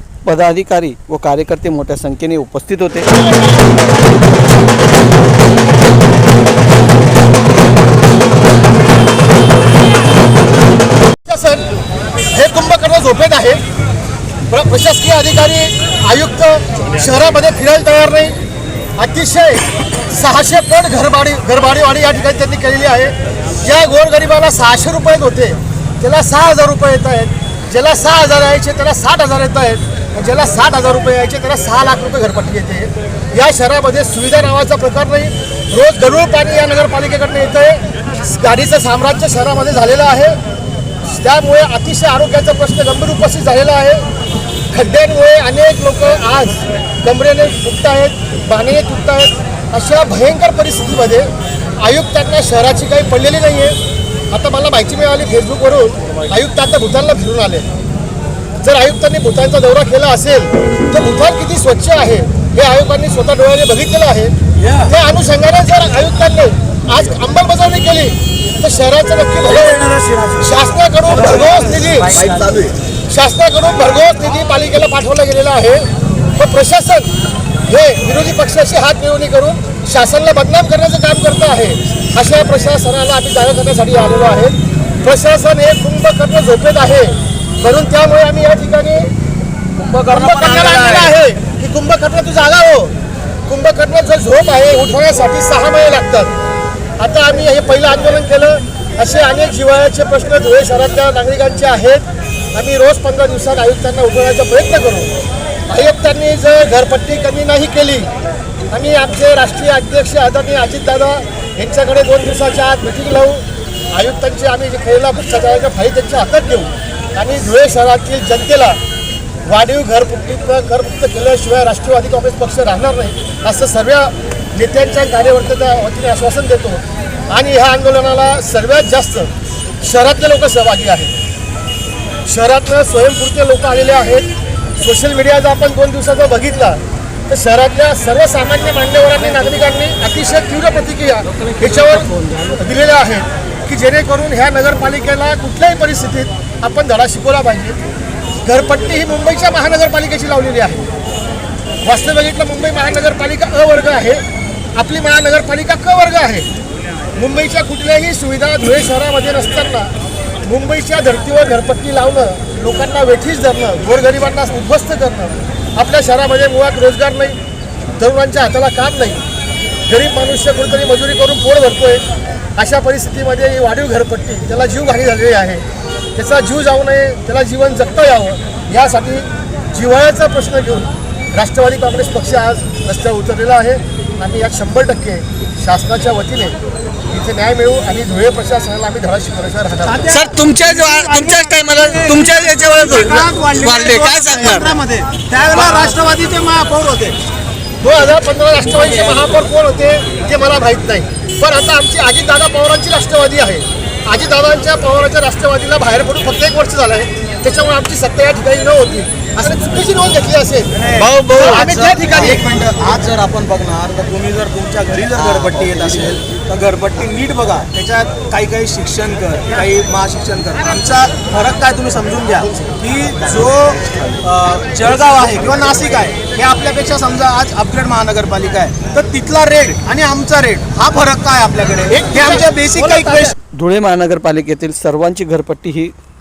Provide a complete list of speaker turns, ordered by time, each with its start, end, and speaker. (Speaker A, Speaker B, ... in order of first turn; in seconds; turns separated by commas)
Speaker A: 0.2-3.1, Speaker B: 11.2-11.7, Speaker B: 12.3-13.6, Speaker B: 14.5-18.4, Speaker B: 19.0-40.4, Speaker B: 41.0-44.1, Speaker B: 44.7-53.8, Speaker B: 54.3-57.7, Speaker B: 58.6-64.3, Speaker B: 64.8-69.8, Speaker C: 69.8-70.3, Speaker B: 70.4-72.2, Speaker C: 72.1-72.7, Speaker B: 73.1-77.1, Speaker B: 77.7-89.1, Speaker C: 89.8-91.1, Speaker B: 90.1-92.9, Speaker B: 93.5-96.3, Speaker B: 97.0-105.1, Speaker B: 105.7-108.1, Speaker B: 108.7-118.8, Speaker B: 119.5-129.3, Speaker B: 129.8-131.1, Speaker B: 132.2-147.8, Speaker B: 148.4-150.9, Speaker B: 151.8-154.2, Speaker B: 154.7-156.5, Speaker B: 157.2-159.9, Speaker B: 160.4-167.4, Speaker B: 168.0-169.2, Speaker B: 169.9-172.0, Speaker B: 172.6-175.6, Speaker B: 176.1-186.6, Speaker B: 187.1-190.1, Speaker C: 189.8-197.2, Speaker A: 190.1-194.7, Speaker B: 197.8-210.7, Speaker C: 210.9-233.3, Speaker A: 210.9-211.6, Speaker B: 211.3-212.4, Speaker B: 231.9-233.3, Speaker A: 233.5-235.9